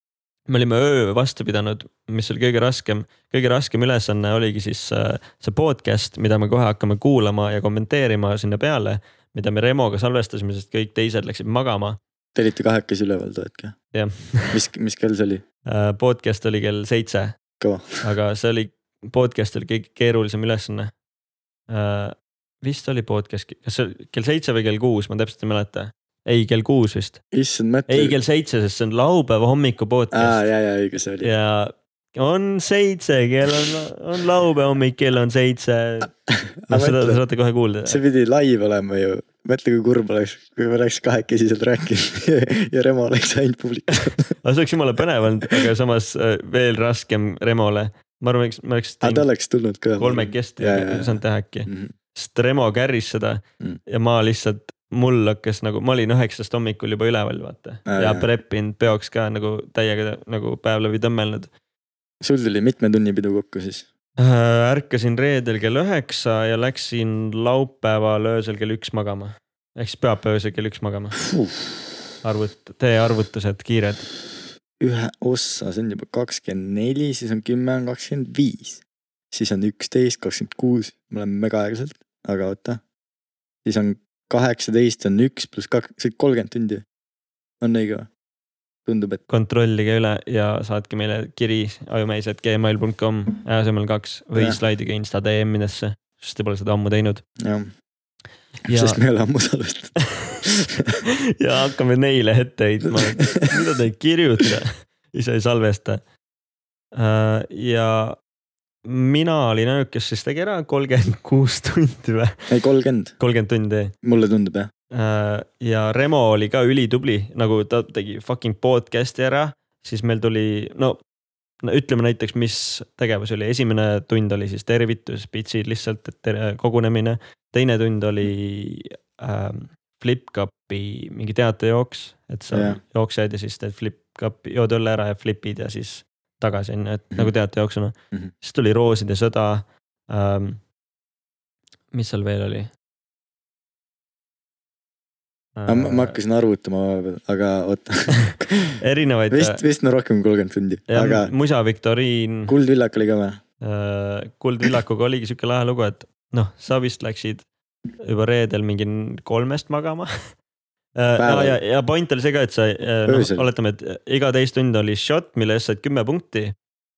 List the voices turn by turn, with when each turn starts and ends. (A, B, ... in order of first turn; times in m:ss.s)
0:00.5-0:12.0 A
0:12.3-0:13.7 B
0:13.9-0:14.6 A
0:14.5-0:15.4 B
0:15.7-0:17.4 A
0:17.6-0:18.0 B
0:18.0-0:20.9 A
0:21.7-0:27.2 A
0:27.3-0:28.2 B
0:27.9-0:30.4 A
0:30.1-0:31.3 B
0:31.2-0:36.1 A
0:36.3-0:37.2 B
0:36.7-0:38.0 A
0:37.9-0:44.3 B
0:44.3-0:49.3 A
0:49.0-0:51.9 B
0:50.0-1:01.5 A
0:57.9-0:58.3 B
1:02.2-1:03.8 B
1:04.2-1:11.2 A
1:12.2-1:14.1 A
1:14.8-1:22.8 B
1:23.6-1:26.8 B
1:27.6-1:28.1 B
1:28.8-1:29.2 B
1:29.3-1:37.2 A
1:37.4-1:37.7 B
1:38.7-1:39.0 A
1:38.7-1:40.0 B
1:41.4-1:46.0 A
1:42.9-1:43.5 B
1:46.9-1:48.2 A
1:48.8-1:52.4 A
1:52.5-1:53.1 B
1:53.2-1:53.9 A
1:54.0-1:54.7 B
1:54.9-2:01.0 A
2:01.6-2:20.6 A
2:12.5-2:12.8 B
2:21.9-2:22.7 A
2:25.6-2:26.2 A
2:25.7-2:28.7 B
2:28.3-2:29.6 A
2:29.3-2:31.3 B
2:30.9-2:32.5 A
2:32.5-2:33.4 B
2:33.6-2:37.4 A
2:38.0-2:40.1 A
2:41.0-2:46.5 A
2:41.2-2:41.6 B
2:43.1-2:43.5 B